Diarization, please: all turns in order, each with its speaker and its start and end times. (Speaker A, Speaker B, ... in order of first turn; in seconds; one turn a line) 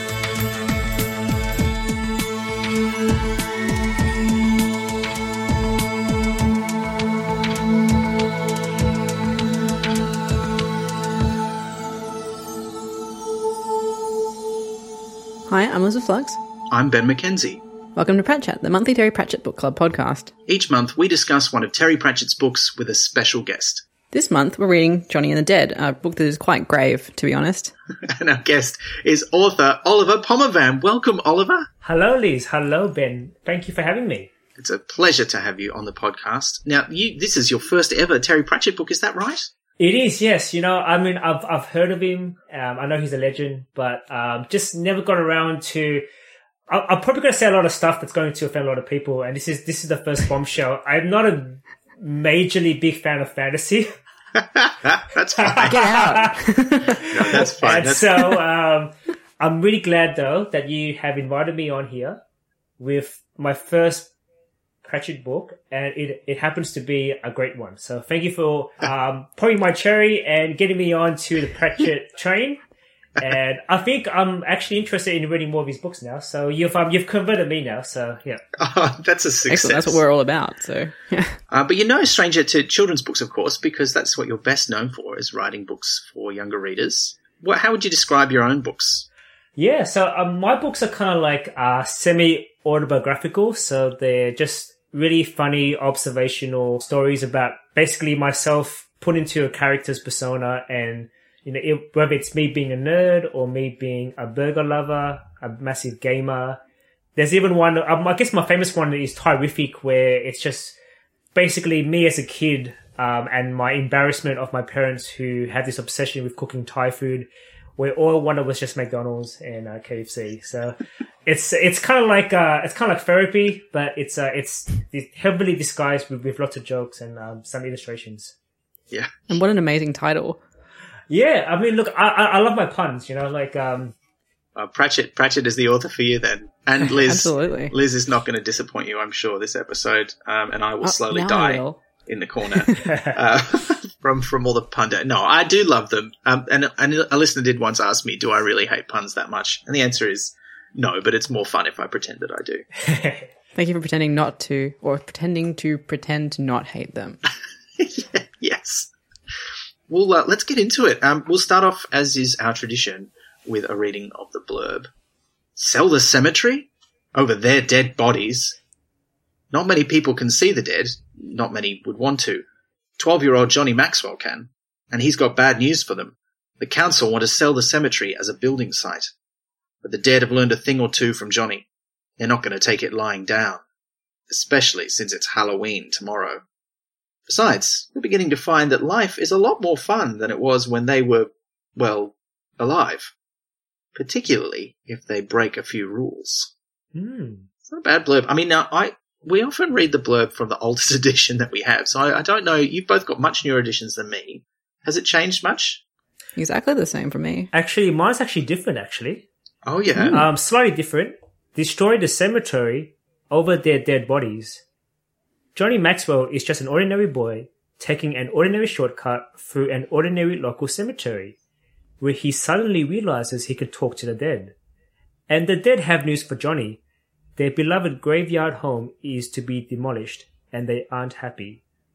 Speaker A: 15.5-16.4
Speaker B: 16.7-17.6
Speaker A: 17.9-20.3
Speaker B: 20.5-23.8
Speaker A: 24.1-27.7
Speaker B: 28.0-31.7
Speaker C: 31.8-34.3
Speaker B: 34.6-39.5
Speaker C: 39.8-46.0
Speaker C: 46.7-54.0
Speaker B: 54.3-56.2
Speaker C: 55.4-62.2
Speaker A: 55.7-57.0
Speaker B: 57.1-58.3
Speaker C: 62.8-64.1
Speaker C: 64.8-72.6
Speaker C: 73.2-78.4
Speaker B: 78.6-80.0
Speaker A: 79.5-81.4
Speaker B: 81.5-89.0
Speaker C: 89.5-106.6
Speaker C: 107.2-110.7
Speaker C: 111.3-128.3
Speaker B: 128.9-129.3
Speaker A: 129.3-130.4
Speaker C: 131.1-133.9
Speaker B: 134.6-152.6
Speaker A: 136.8-137.7
Speaker A: 140.8-141.8
Speaker A: 142.6-142.9
Speaker C: 142.8-143.2
Speaker C: 152.8-153.3
Speaker A: 153.5-157.2
Speaker B: 157.8-158.9
Speaker B: 159.9-164.9
Speaker B: 165.6-168.6
Speaker B: 169.5-172.4
Speaker B: 173.0-179.1
Speaker B: 179.8-181.7
Speaker B: 182.2-183.6
Speaker B: 184.3-186.4
Speaker B: 187.3-193.1
Speaker B: 193.9-196.5
Speaker C: 196.9-197.5
Speaker B: 197.7-205.8
Speaker A: 206.4-207.5
Speaker C: 207.5-209.2
Speaker B: 209.6-210.3
Speaker A: 209.9-210.2
Speaker C: 210.1-214.6
Speaker C: 215.5-221.3
Speaker C: 222.0-224.5
Speaker C: 225.3-226.8
Speaker C: 227.4-231.6